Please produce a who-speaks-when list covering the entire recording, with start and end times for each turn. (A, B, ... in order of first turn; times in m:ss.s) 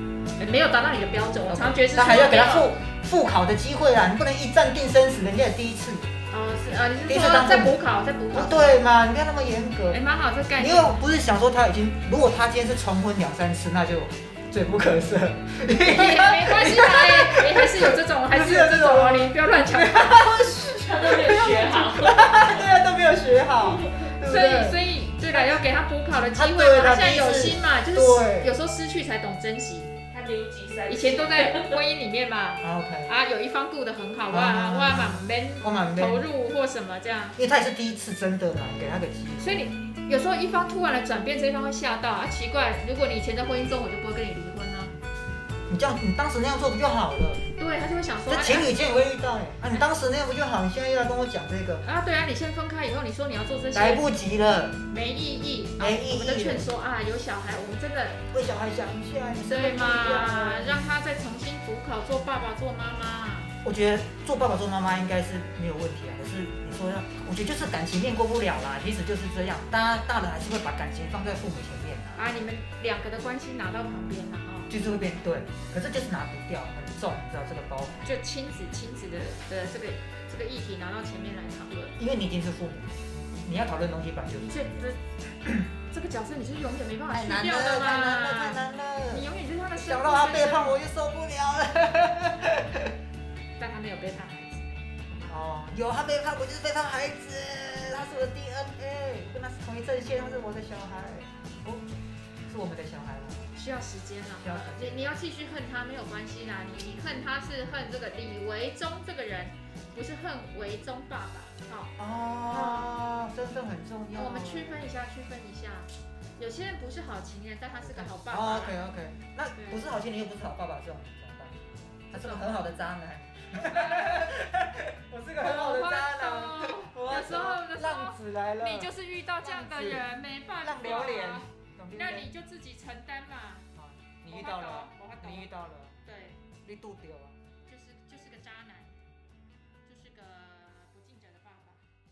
0:00.4-0:02.7 A
0:01.5-0:06.1 B
0:06.3-0:08.8 A
0:07.1-0:07.8 B
0:08.3-0:10.0 B
0:09.9-0:11.0 A
0:10.6-0:24.8 B
0:15.8-0:20.6 A
0:20.7-0:22.4 C
0:21.1-0:22.2 A
0:24.0-0:30.0 A
0:26.3-0:28.5 B
0:30.1-0:31.7 C
0:30.9-0:37.4 A
0:32.6-0:33.1 B
0:34.3-0:36.2 B
0:37.4-0:39.7 B
0:39.4-0:44.9 A
0:45.7-0:47.4 B
0:47.6-0:48.7 A
0:48.3-0:51.8 B
0:51.8-0:54.0 A
0:53.7-0:54.8 B
0:54.9-0:58.2 A
0:55.8-0:56.6 B
0:58.3-1:00.9 B
0:59.4-1:03.5 A
1:03.6-1:12.2 B
1:12.2-1:14.7 A
1:14.7-1:18.1 B
1:18.0-1:22.0 A
1:22.0-1:24.8 B
1:24.4-1:25.0 A
1:25.9-1:30.8 A
1:27.1-1:32.8 B
1:33.6-1:34.8 A
1:35.1-1:41.8 B
1:42.5-1:43.5 B
1:43.5-1:51.9 A
1:44.4-1:45.2 B
1:52.0-1:54.9 B
1:52.5-1:53.0 A
1:54.2-1:58.8 A
1:57.8-2:01.6 B
2:02.1-2:10.1 B
2:02.1-2:02.7 A
2:03.7-2:04.3 A
2:05.4-2:13.7 A
2:10.6-2:12.3 B
2:13.8-2:16.0 B
2:14.3-2:15.5 A
2:16.0-2:16.4 A
2:16.6-2:17.4 B
2:17.7-2:19.0 A
2:19.8-2:21.8 A